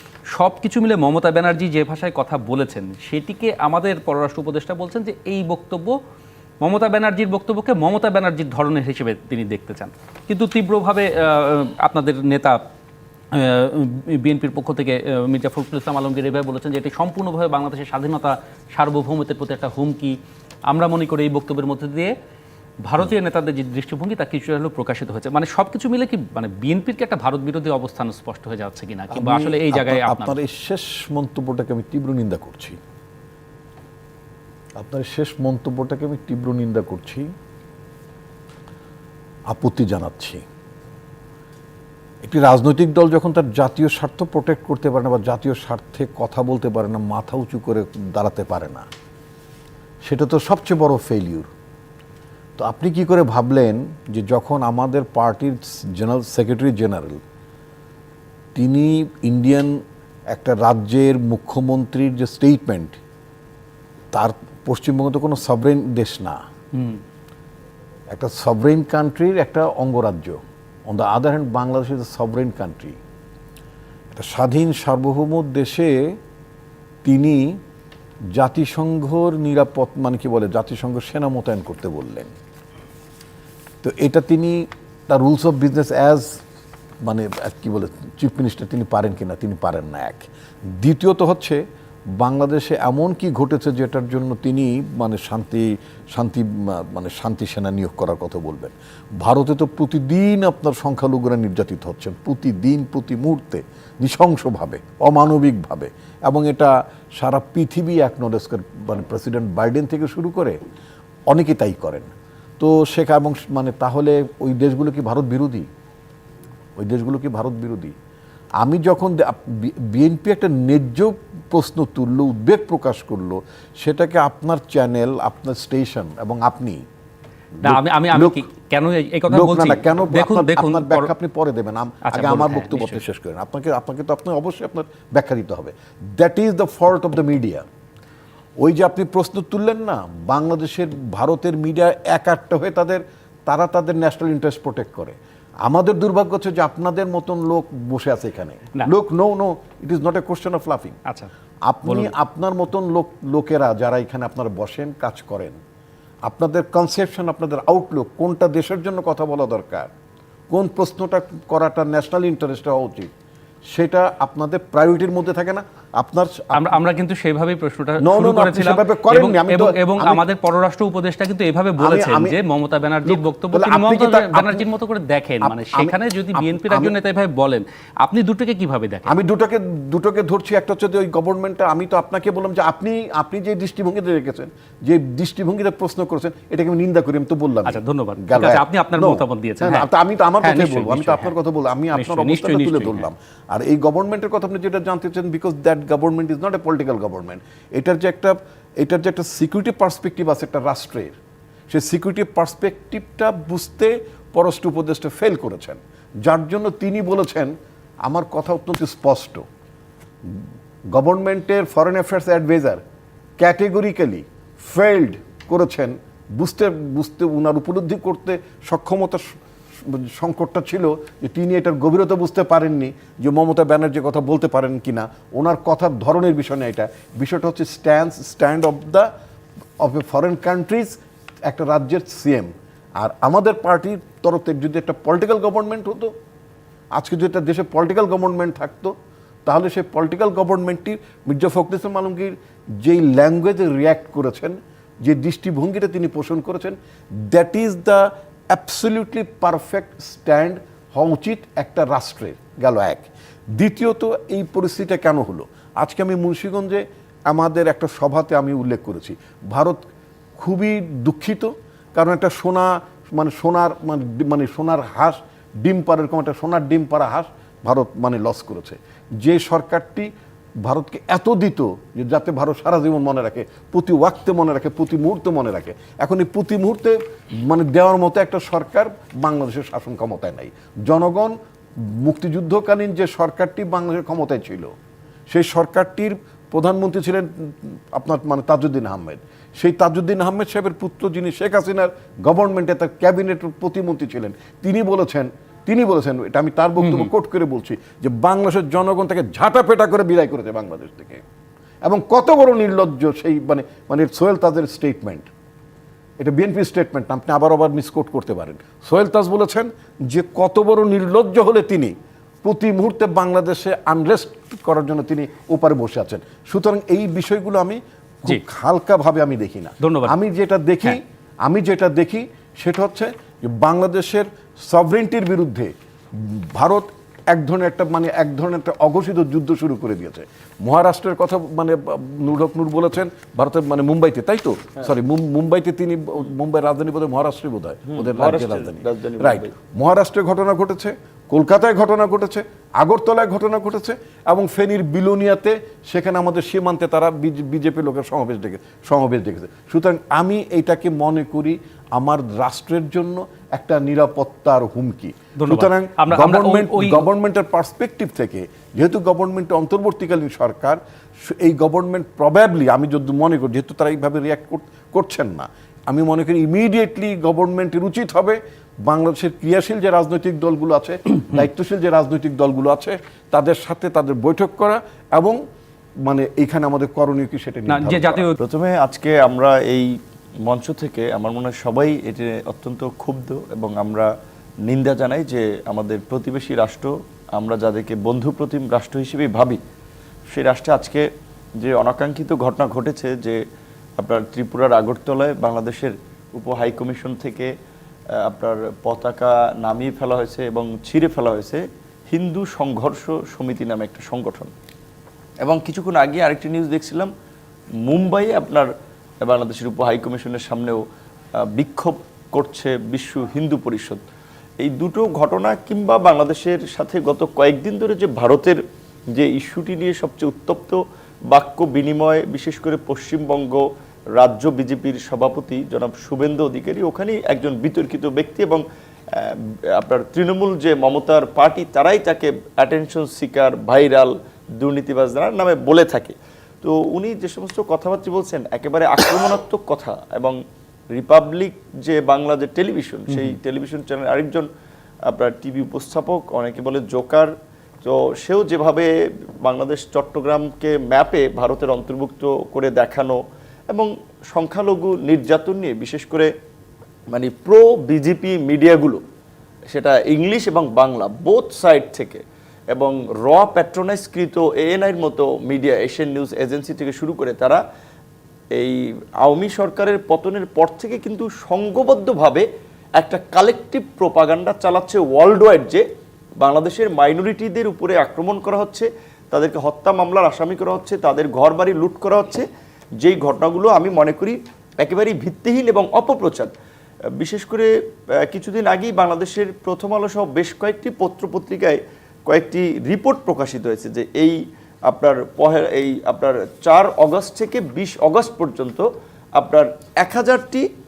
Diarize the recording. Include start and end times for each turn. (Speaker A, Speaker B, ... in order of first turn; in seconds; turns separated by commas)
Speaker A: 0.3-6.0, Speaker A: 6.6-12.6, Speaker A: 13.3-20.2, Speaker A: 20.7-22.1, Speaker A: 22.9-30.4, Speaker B: 29.1-32.8, Speaker B: 34.8-37.3, Speaker B: 39.5-40.4, Speaker B: 42.2-48.9, Speaker B: 50.0-51.5, Speaker B: 52.6-57.2, Speaker B: 58.5-59.8, Speaker B: 60.3-63.0, Speaker B: 64.1-66.4, Speaker A: 66.8-67.0, Speaker B: 68.1-73.0, Speaker B: 74.1-76.2, Speaker B: 77.0-77.6, Speaker B: 78.3-82.3, Speaker B: 83.8-86.4, Speaker B: 87.0-91.6, Speaker B: 92.2-110.6, Speaker B: 111.3-115.7, Speaker B: 116.8-117.9, Speaker B: 118.6-126.8, Speaker B: 127.6-128.4, Speaker A: 127.6-131.1, Speaker B: 129.3-137.7, Speaker A: 132.1-133.0, Speaker B: 138.6-151.0, Speaker B: 151.6-155.6, Speaker A: 151.8-152.1, Speaker B: 156.2-159.9, Speaker B: 160.5-163.1, Speaker B: 163.7-166.8, Speaker A: 166.5-179.1, Speaker B: 168.0-170.2, Speaker B: 171.8-172.4, Speaker B: 173.1-174.7, Speaker B: 175.4-176.9, Speaker B: 179.1-201.2, Speaker A: 187.7-189.9, Speaker A: 190.4-191.3, Speaker A: 191.9-193.1, Speaker B: 201.7-209.4, Speaker B: 210.2-212.8, Speaker B: 213.4-229.1, Speaker B: 229.8-236.1, Speaker B: 236.9-238.9, Speaker B: 239.5-259.8, Speaker B: 260.4-270.1, Speaker B: 270.6-284.7, Speaker B: 285.3-301.2, Speaker A: 296.8-297.1, Speaker B: 301.8-305.3, Speaker B: 306.2-375.4, Speaker A: 319.8-320.2, Speaker C: 337.9-339.5, Speaker A: 355.4-357.1, Speaker B: 376.1-378.3, Speaker A: 377.7-378.4, Speaker C: 378.4-379.9, Speaker C: 380.5-384.1, Speaker C: 384.6-389.6, Speaker C: 390.3-391.1, Speaker C: 391.6-393.4, Speaker C: 394.0-397.5, Speaker C: 398.2-404.5, Speaker C: 405.4-407.1, Speaker C: 407.9-408.7, Speaker C: 409.2-410.8, Speaker C: 411.4-414.0, Speaker C: 414.6-418.6, Speaker C: 419.1-420.8, Speaker C: 421.3-423.6, Speaker C: 424.2-440.4, Speaker C: 440.9-444.5, Speaker A: 443.1-443.4, Speaker C: 445.1-447.3, Speaker C: 447.8-448.9, Speaker C: 449.4-453.2, Speaker C: 453.7-456.3, Speaker C: 457.1-459.0, Speaker C: 459.7-467.6, Speaker C: 468.6-472.5, Speaker C: 473.0-475.8, Speaker C: 476.4-482.5, Speaker C: 483.0-486.5, Speaker C: 487.2-487.7, Speaker C: 488.2-500.7